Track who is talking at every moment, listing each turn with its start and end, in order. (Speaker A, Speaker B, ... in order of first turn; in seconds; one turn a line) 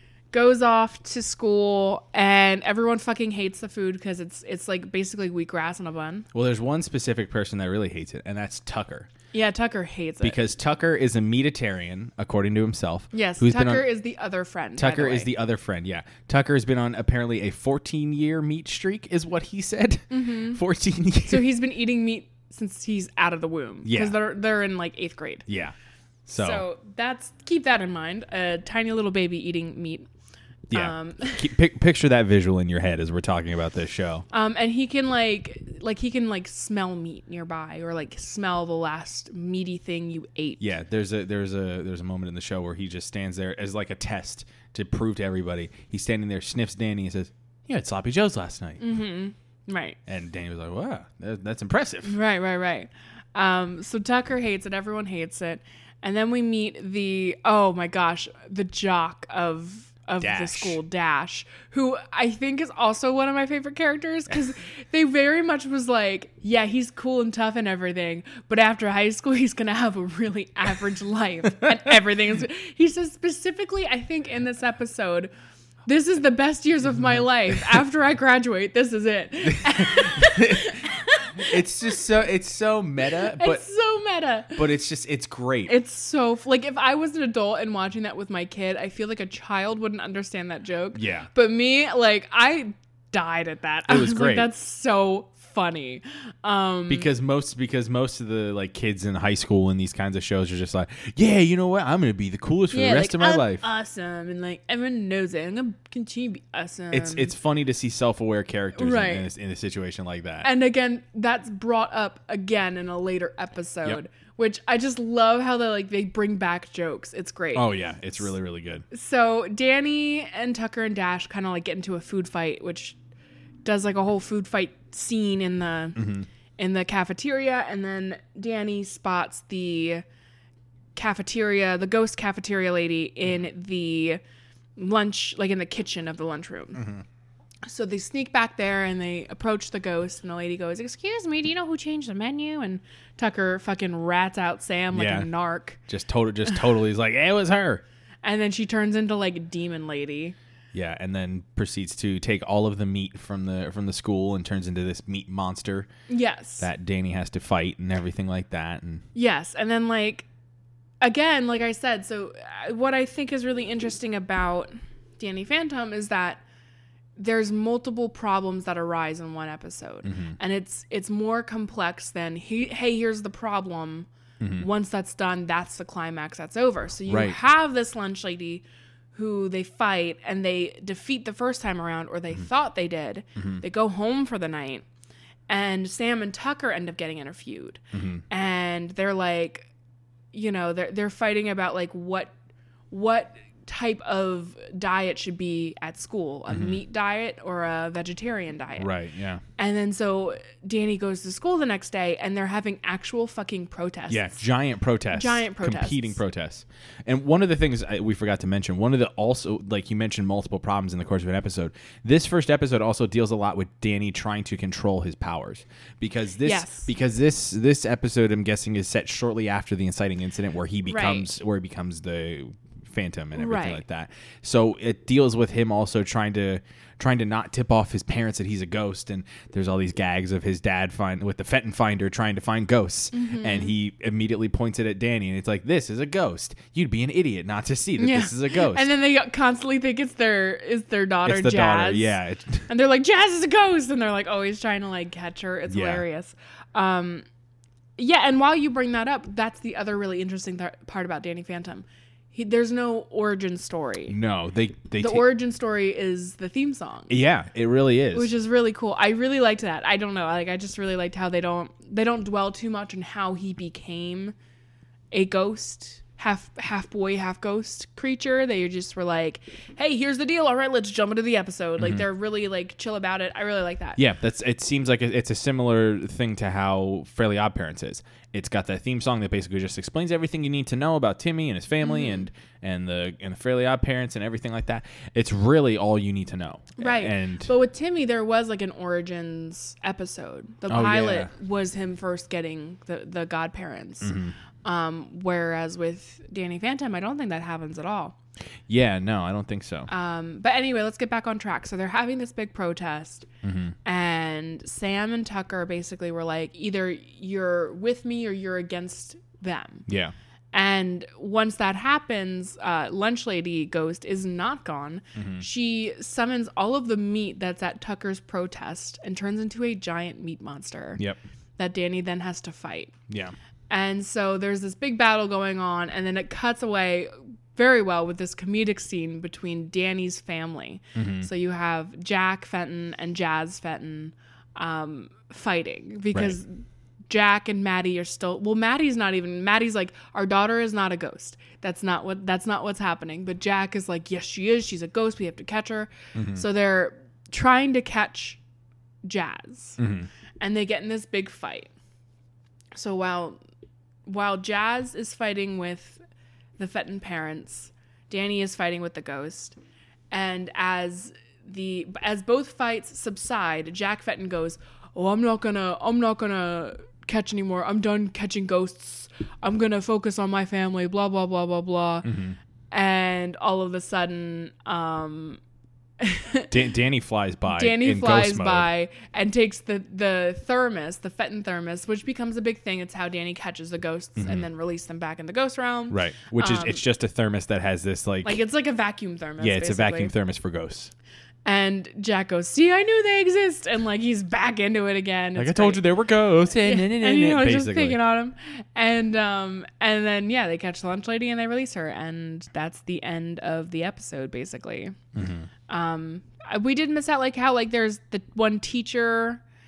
Speaker A: 0.3-6.3
Speaker B: 6.3-9.1
Speaker A: 9.3-10.4
Speaker B: 10.2-13.9
Speaker A: 13.1-15.3
Speaker B: 14.8-21.5
Speaker A: 20.1-20.6
Speaker A: 21.2-25.4
Speaker B: 23.8-24.1
Speaker B: 25.5-25.7
Speaker B: 26.2-26.6
Speaker A: 26.3-30.1
Speaker B: 30.7-34.2
Speaker A: 30.7-31.5
Speaker A: 34.3-40.6
Speaker B: 40.6-48.8
Speaker A: 48.8-50.0
Speaker B: 50.0-52.1
Speaker A: 52.0-75.3
Speaker B: 60.2-60.8
Speaker A: 75.8-82.0
Speaker B: 79.5-83.6
Speaker A: 83.2-84.7
Speaker B: 84.5-85.7
Speaker A: 85.7-97.1
Speaker B: 90.9-91.3
Speaker B: 93.9-94.5
Speaker B: 96.9-103.7
Speaker A: 102.7-107.3
Speaker B: 106.9-110.5
Speaker A: 108.8-109.3
Speaker A: 110.4-118.2
Speaker B: 117.5-118.8
Speaker A: 118.9-123.0
Speaker A: 123.6-130.0
Speaker B: 126.0-126.3
Speaker A: 130.9-134.2
Speaker A: 134.8-136.8
Speaker B: 136.7-137.0
Speaker A: 137.6-145.8
Speaker B: 144.9-145.3
Speaker B: 145.9-147.8
Speaker A: 148.2-150.3
Speaker B: 150.7-155.9
Speaker A: 156.1-156.7
Speaker B: 156.6-159.0
Speaker A: 159.1-160.2
Speaker A: 161.0-166.4
Speaker A: 167.2-184.8
Speaker B: 170.0-170.3
Speaker B: 174.4-174.7
Speaker B: 177.1-177.4
Speaker B: 183.3-183.6
Speaker A: 185.5-189.7
Speaker B: 187.9-188.2
Speaker A: 190.3-192.3
Speaker A: 192.9-198.9
Speaker B: 196.5-196.8
Speaker B: 198.8-199.4
Speaker A: 199.6-204.4
Speaker B: 204.1-238.9
Speaker A: 205.1-206.2
Speaker A: 216.4-216.9
Speaker A: 220.9-221.3
Speaker A: 223.3-223.8
Speaker A: 233.1-233.7
Speaker A: 238.0-242.2
Speaker B: 241.2-242.7
Speaker A: 242.7-247.2
Speaker B: 245.7-246.0
Speaker A: 248.0-254.2
Speaker B: 254.1-255.2
Speaker A: 255.0-257.1
Speaker B: 257.1-258.3
Speaker A: 258.1-264.3
Speaker A: 265.1-274.0
Speaker B: 271.8-272.0
Speaker B: 274.0-287.5
Speaker A: 281.8-282.3
Speaker A: 286.8-298.1
Speaker B: 290.7-291.3
Speaker B: 294.0-294.3
Speaker B: 298.7-299.9
Speaker A: 299.9-303.3
Speaker B: 303.4-303.7
Speaker A: 303.8-309.9
Speaker B: 309.9-310.1
Speaker A: 310.5-321.0
Speaker B: 315.1-315.4
Speaker A: 321.6-322.9
Speaker B: 323.1-323.3
Speaker A: 323.7-348.4
Speaker B: 330.9-331.3
Speaker B: 346.1-346.4
Speaker A: 349.0-349.8
Speaker B: 349.8-350.1
Speaker A: 350.4-351.7
Speaker A: 352.7-353.4
Speaker A: 354.1-356.0
Speaker A: 356.6-359.6
Speaker A: 360.1-372.1
Speaker B: 372.0-372.4
Speaker A: 372.7-375.4
Speaker A: 376.0-376.5
Speaker B: 376.5-378.7
Speaker A: 377.5-386.8
Speaker B: 384.2-384.5
Speaker B: 385.9-388.4
Speaker A: 388.2-390.1
Speaker B: 389.4-390.9
Speaker A: 391.4-395.8
Speaker B: 395.4-398.0
Speaker A: 396.5-404.9
Speaker B: 405.1-405.5
Speaker A: 405.7-409.4